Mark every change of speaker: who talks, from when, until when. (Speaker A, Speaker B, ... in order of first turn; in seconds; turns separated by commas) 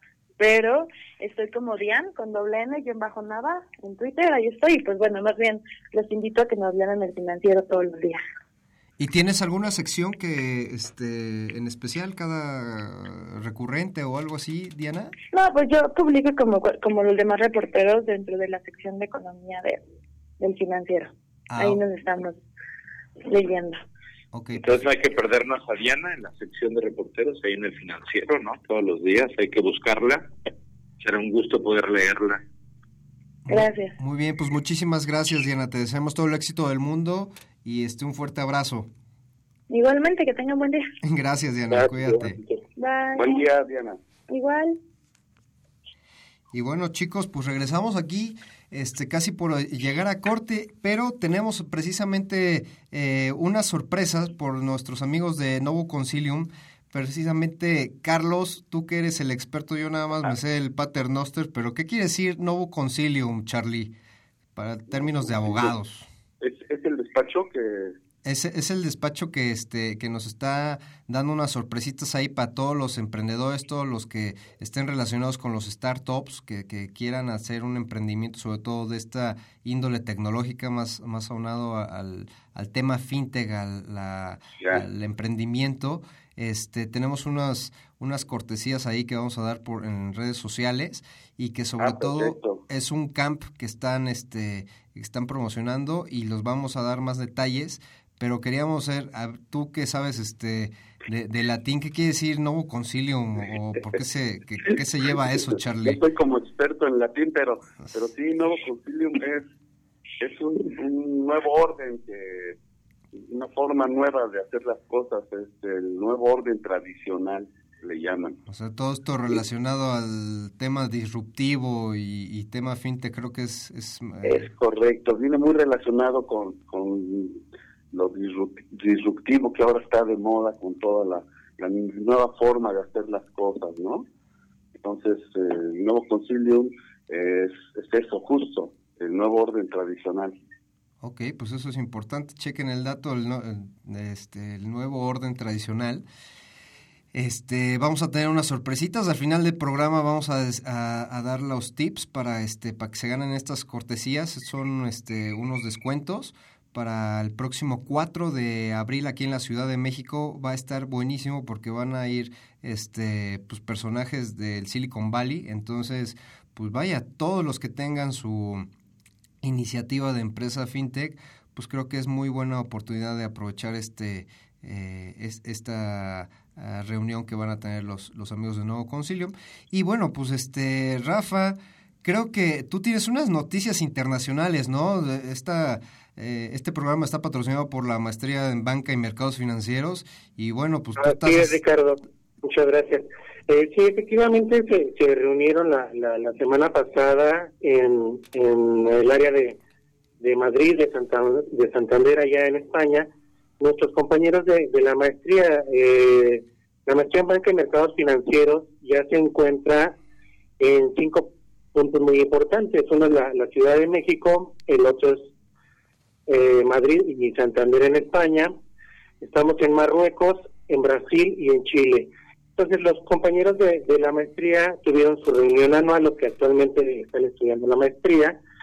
Speaker A: 0.4-8.2, Speaker B: 9.0-15.1, Speaker A: 15.3-19.8, Speaker A: 20.4-22.4, Speaker B: 21.5-21.8, Speaker A: 23.2-23.8, Speaker B: 24.3-24.8, Speaker C: 24.5-30.3, Speaker C: 31.0-32.4, Speaker B: 33.5-38.9, Speaker A: 33.5-34.0, Speaker A: 39.7-40.9, Speaker B: 41.0-42.4, Speaker C: 41.8-42.3, Speaker A: 42.8-43.4, Speaker D: 43.2-44.0, Speaker A: 44.3-44.8, Speaker B: 46.5-63.9, Speaker B: 64.6-66.1, Speaker D: 65.0-65.7, Speaker D: 66.4-68.0, Speaker B: 68.2-106.0, Speaker D: 91.8-92.6, Speaker D: 105.8-109.5, Speaker D: 110.2-112.6, Speaker D: 113.1-118.4, Speaker B: 118.5-124.5, Speaker D: 124.2-134.1, Speaker D: 134.8-140.4, Speaker B: 141.0-146.1, Speaker B: 147.1-168.7, Speaker B: 169.4-191.6, Speaker E: 191.0-199.6, Speaker E: 200.2-203.1, Speaker E: 203.6-210.0, Speaker E: 210.6-215.3, Speaker E: 216.3-218.6, Speaker E: 219.2-228.4